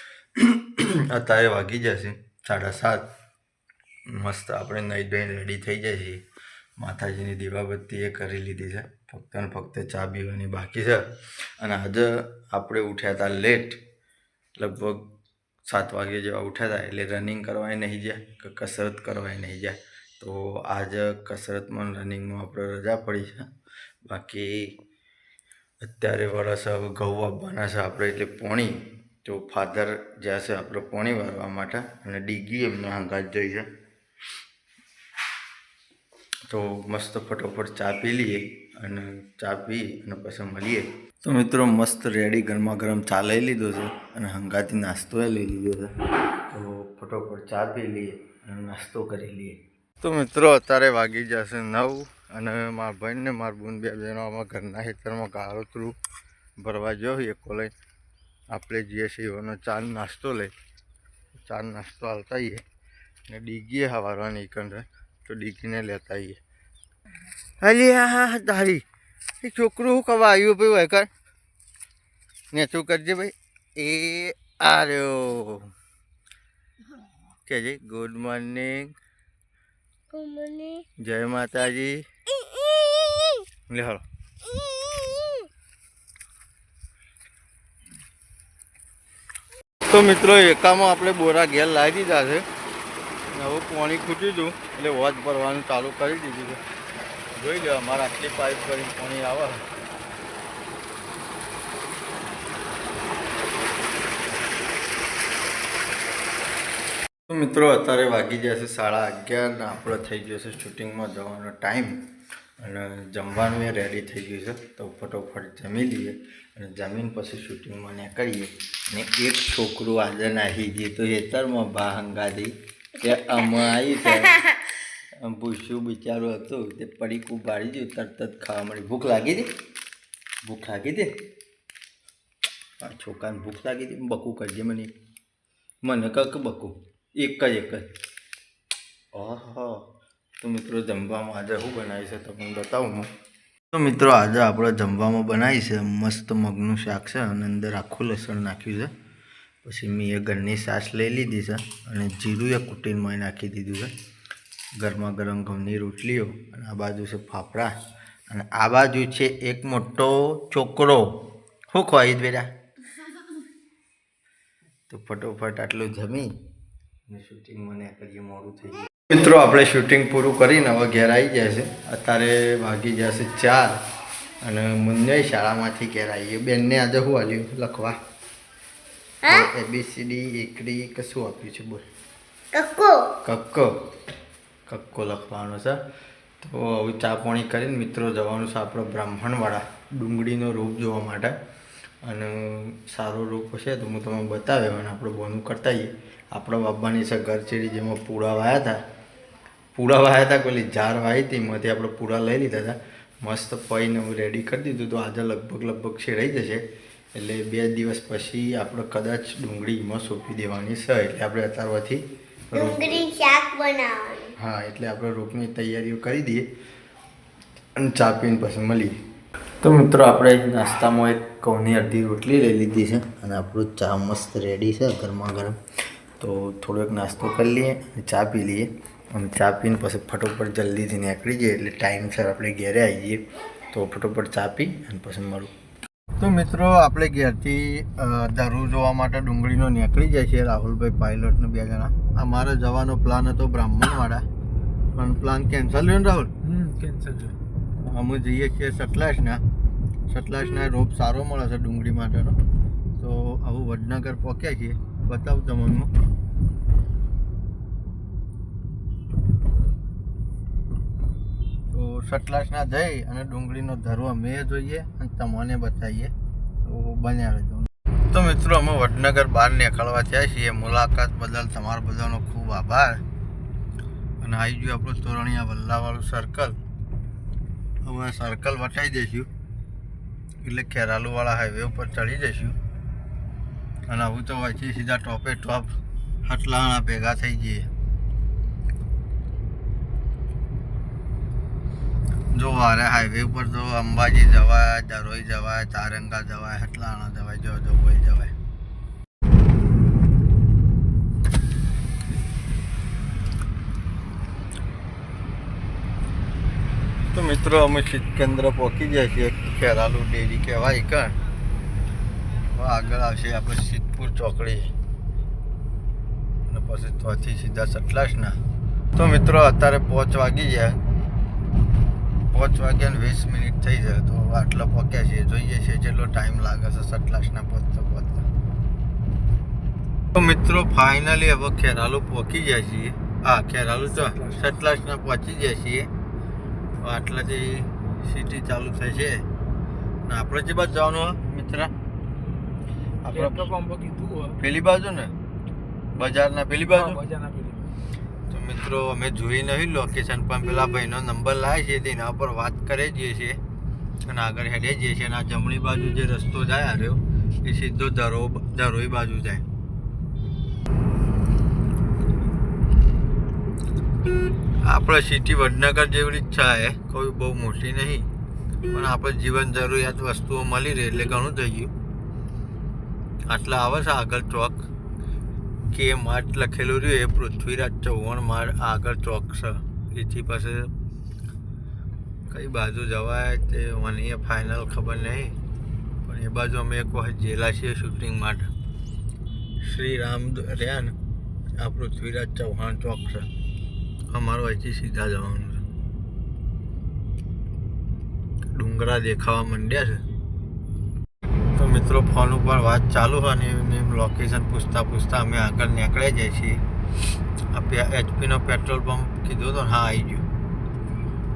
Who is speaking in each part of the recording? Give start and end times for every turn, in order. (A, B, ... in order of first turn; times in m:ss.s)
0:00.4-0:03.1 A
0:04.1-0:06.2 A
0:06.8-0:13.8 A
0:14.6-0:23.5 A
0:24.0-0:24.7 A
0:25.8-0:33.7 A
0:36.5-0:45.9 A
0:46.5-0:56.0 A
0:56.6-0:57.7 A
0:58.5-1:00.5 A
1:01.4-1:02.6 A
1:03.3-1:06.4 A
1:07.6-1:08.8 A
1:09.4-1:11.1 A
1:12.5-1:15.7 A
1:17.4-1:18.9 A
1:20.1-1:20.8 B
1:21.0-1:22.0 A
1:23.7-1:24.0 A
1:29.9-1:32.4 A
1:33.3-1:36.6 A
1:37.3-1:39.6 A
1:47.3-1:52.0 A
1:52.6-2:04.5 A
2:05.2-2:09.5 A
2:10.4-2:11.2 A
2:12.8-2:14.9 A
2:15.8-2:17.9 A
2:19.1-2:19.8 A
2:20.4-2:23.1 A
2:23.7-2:28.9 A
2:29.6-2:33.9 A
2:34.8-2:37.7 A
2:38.3-2:42.5 A
2:44.9-2:46.3 A
2:47.1-2:53.8 A
2:54.4-2:58.0 A
2:59.2-3:01.8 A
3:02.5-3:03.1 B
3:03.2-3:03.7 A
3:04.7-3:05.8 A
3:06.4-3:11.3 A
3:12.0-3:18.8 A
3:19.7-3:26.6 A
3:27.1-3:33.1 A
3:32.5-3:34.3 B
3:34.4-3:36.5 A
3:37.8-3:39.0 A
3:39.6-3:45.6 A
3:46.2-3:55.5 A
3:56.2-4:04.2 A
4:04.9-4:06.3 A
4:06.4-4:07.4 C
4:07.8-4:09.4 A
4:10.1-4:12.4 A
4:13.0-4:15.9 A
4:21.7-4:33.0 A
4:34.2-4:36.6 A
4:37.8-4:39.3 A
4:40.4-4:42.6 A
4:43.9-4:45.7 A
4:46.2-4:47.7 A
4:52.3-4:58.3 A
5:07.1-5:11.2 A
5:12.5-5:14.7 A
5:16.5-5:18.4 A
5:19.0-5:20.8 A
5:22.3-5:28.3 A
5:30.1-5:35.9 A
5:33.9-5:34.4 C
5:36.8-5:39.3 A
5:40.0-5:41.7 A
5:42.1-5:42.6 C
5:43.0-5:43.5 A
5:43.1-5:44.4 C
5:44.4-5:45.1 A
5:45.9-5:47.0 A
5:46.6-5:47.7 C
5:48.3-5:53.4 A
5:54.0-5:59.4 A
6:04.6-6:08.1 A
6:08.7-6:11.7 A
6:13.3-6:14.6 A
6:15.7-6:20.7 A
6:22.2-6:25.4 A
6:26.0-6:28.5 A
6:29.6-6:31.0 A
6:31.6-6:33.3 A
6:34.1-6:35.6 A
6:38.5-6:40.0 A
6:41.6-6:46.6 A
6:47.5-6:50.3 A